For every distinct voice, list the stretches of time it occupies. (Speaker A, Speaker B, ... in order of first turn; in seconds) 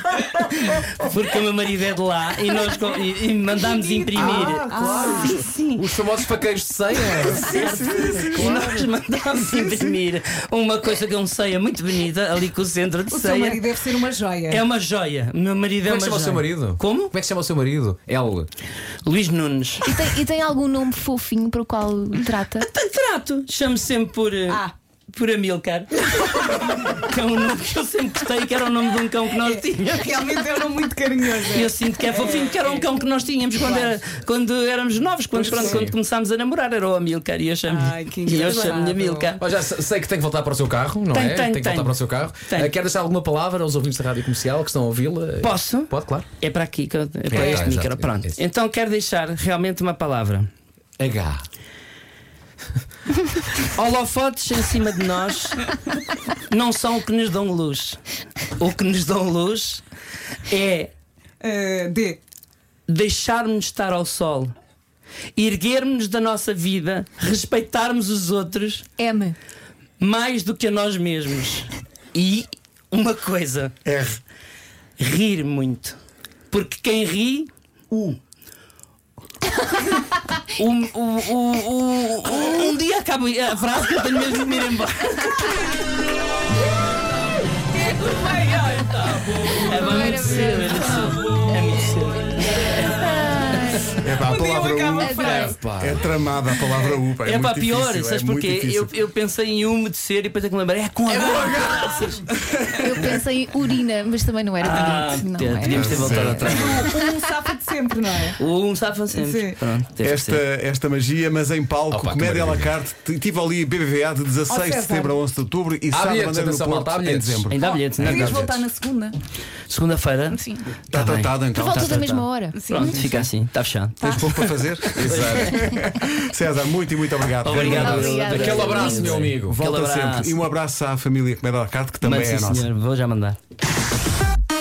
Speaker A: 0.2-0.9, 4.5-5.4, 7.3-8.6, 9.5-10.0, 73.8-74.2, 94.0-98.9, 102.5-103.1, 105.7-106.8, 110.0-118.3, 120.9-122.1, 124.0-128.3, 129.4-132.7
Speaker B: 0.6-5.8, 7.0-13.7, 14.5-17.1, 19.0-19.9, 22.4-30.4, 31.4-39.4, 41.1-42.7, 45.4-50.5, 53.6-55.7, 56.5-58.0, 58.6-59.8, 60.5-60.9, 62.9-64.5, 65.3-68.9, 70.0-73.8, 75.0-76.0, 76.5-77.5, 80.5-85.8, 89.4-93.0, 97.2-102.3, 104.6-106.9, 108.4-110.4, 117.5-118.5, 119.7-124.1, 125.0-125.7, 127.4-130.3, 132.0-133.4
Speaker C: 3.6-5.5, 13.1-14.6, 26.2-27.0, 29.4-32.9, 35.5-35.8, 37.6-39.3, 47.3-47.6, 61.4-62.2, 87.7-89.9, 94.1-95.6, 106.4-108.4, 109.1-109.6, 114.5-115.2, 117.5-119.2, 120.3-120.7, 122.5-123.2, 124.0-124.5
Speaker D: 4.2-4.9, 5.7-8.9, 15.8-18.5, 35.3-35.9, 39.4-46.2, 47.3-48.4, 51.0-51.4, 95.5-96.0, 111.9-112.8, 115.9-117.6, 118.1-118.6, 125.0-125.4, 128.3-129.6
Speaker E: 19.8-22.7, 69.0-69.3, 89.6-91.2, 92.8-94.0, 95.0-95.5, 102.8-106.7, 121.5-122.9, 127.5-129.2